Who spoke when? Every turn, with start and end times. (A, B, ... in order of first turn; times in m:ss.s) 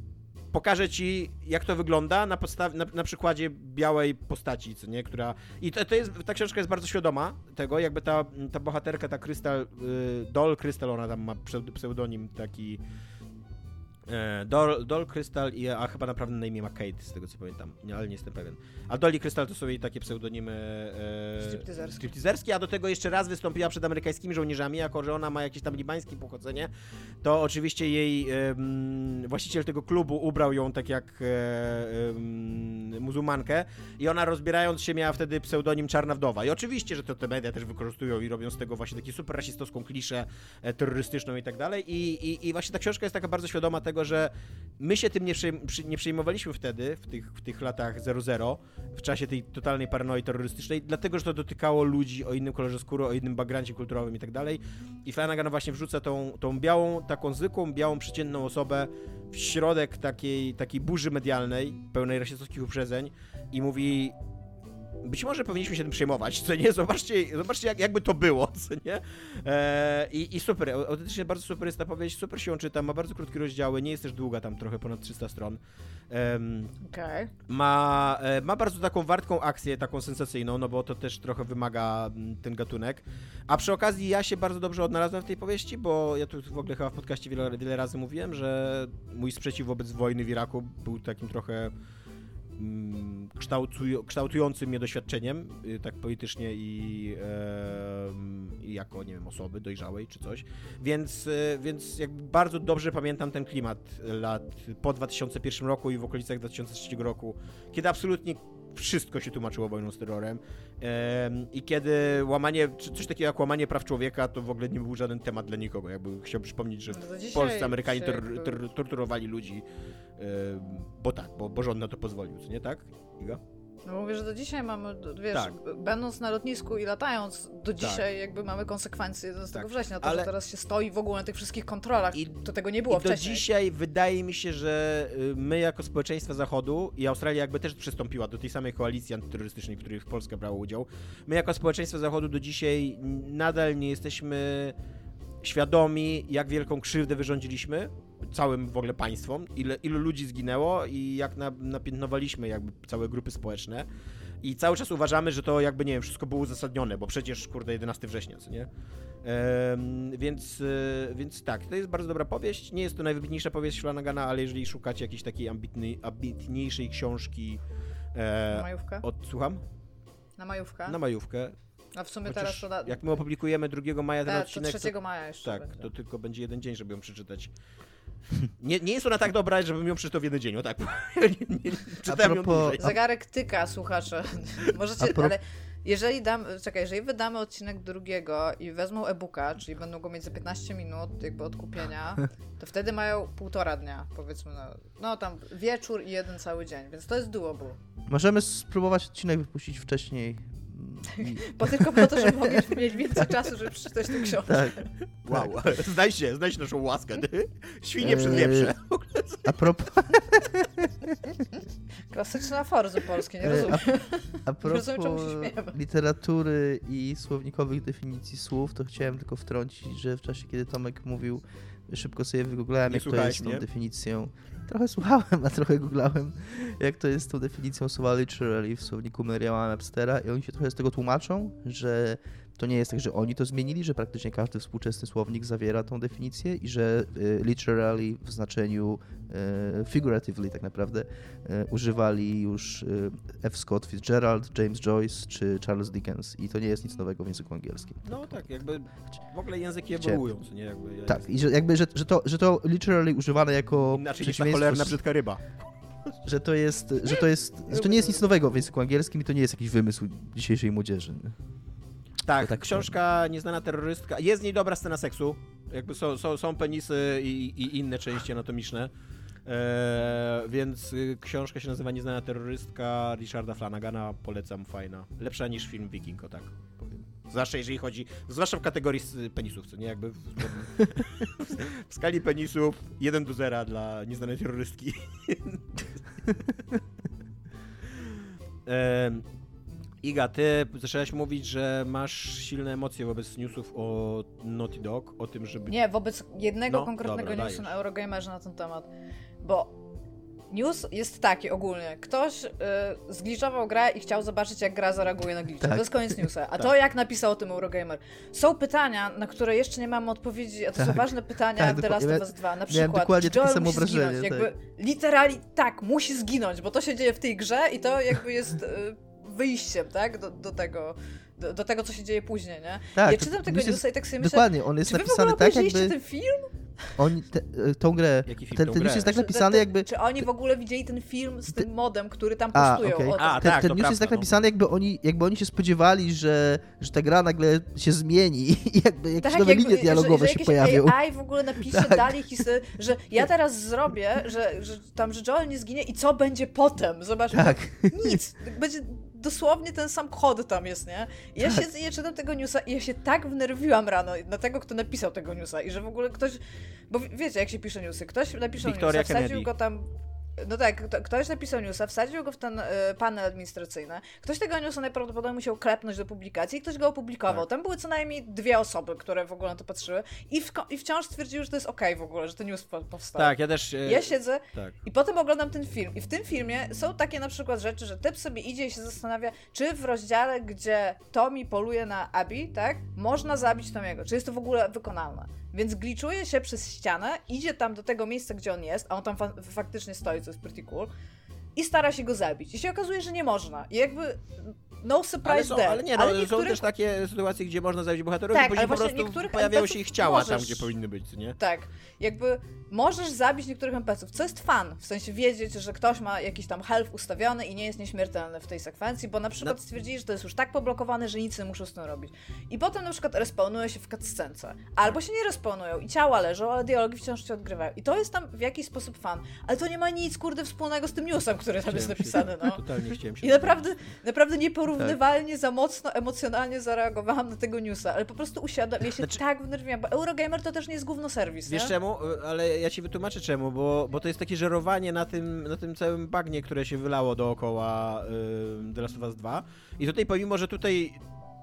0:00.5-0:12.8 A
0:14.1-0:26.7 A
0:21.4-0:22.1 B
0:27.2-1:04.2 A
1:05.0-1:15.6 A
1:16.1-1:16.8 A
1:16.8-1:17.3 B
1:17.5-1:31.7 A
1:32.6-1:59.6 A
1:56.9-1:58.6 B
2:00.2-2:03.4 A
2:03.9-2:13.5 B
2:07.8-2:08.1 A
2:09.5-2:10.3 A
2:12.9-2:24.8 A
2:25.4-2:33.9 A
2:34.4-2:38.7 A
2:39.2-2:47.6 A
2:48.2-2:49.6 A
2:48.5-2:49.0 B
2:50.4-2:51.0 B
2:50.9-2:51.6 A
2:52.0-2:53.0 B
2:52.2-2:57.5 A
2:54.3-2:55.9 B
2:58.6-3:02.8 A
3:02.1-3:03.0 C
3:02.8-3:17.8 B
3:05.0-3:05.4 C
3:18.1-3:23.5 C
3:21.1-3:24.9 B
3:24.3-3:25.5 C
3:25.2-3:29.5 A
3:28.0-3:28.8 C
3:29.4-3:31.4 C
3:32.1-3:35.8 B
3:33.4-3:33.9 C
3:34.5-4:08.4 C
3:42.9-3:43.6 A
4:08.0-4:11.3 A
4:10.0-4:10.2 C
4:11.1-4:15.0 C
4:13.9-4:15.7 A
4:16.2-4:21.4 C
4:17.7-4:18.3 B
4:22.2-4:28.9 A
4:22.4-4:22.9 C
4:29.5-4:46.5 A
4:48.0-4:49.2 A
4:50.0-4:55.8 A
4:55.7-4:58.9 B
4:56.7-4:57.7 A
4:59.4-4:59.8 B
5:00.5-5:26.9 B
5:05.6-5:06.3 C
5:10.8-5:14.5 C
5:23.0-5:26.0 C
5:27.0-5:29.9 C
5:28.3-5:29.1 A
5:29.0-5:33.5 B
5:32.5-5:41.0 C
5:33.2-5:34.3 A
5:39.2-6:30.9 B
5:41.7-5:42.4 C
5:47.3-5:48.2 C
5:58.6-5:59.5 A
6:13.2-6:14.8 A
6:31.6-6:36.7 B
6:35.2-6:41.4 A
6:38.3-6:40.7 B
6:41.4-7:02.6 B
7:01.7-7:03.7 A
7:03.2-7:11.7 B
7:11.5-7:21.0 A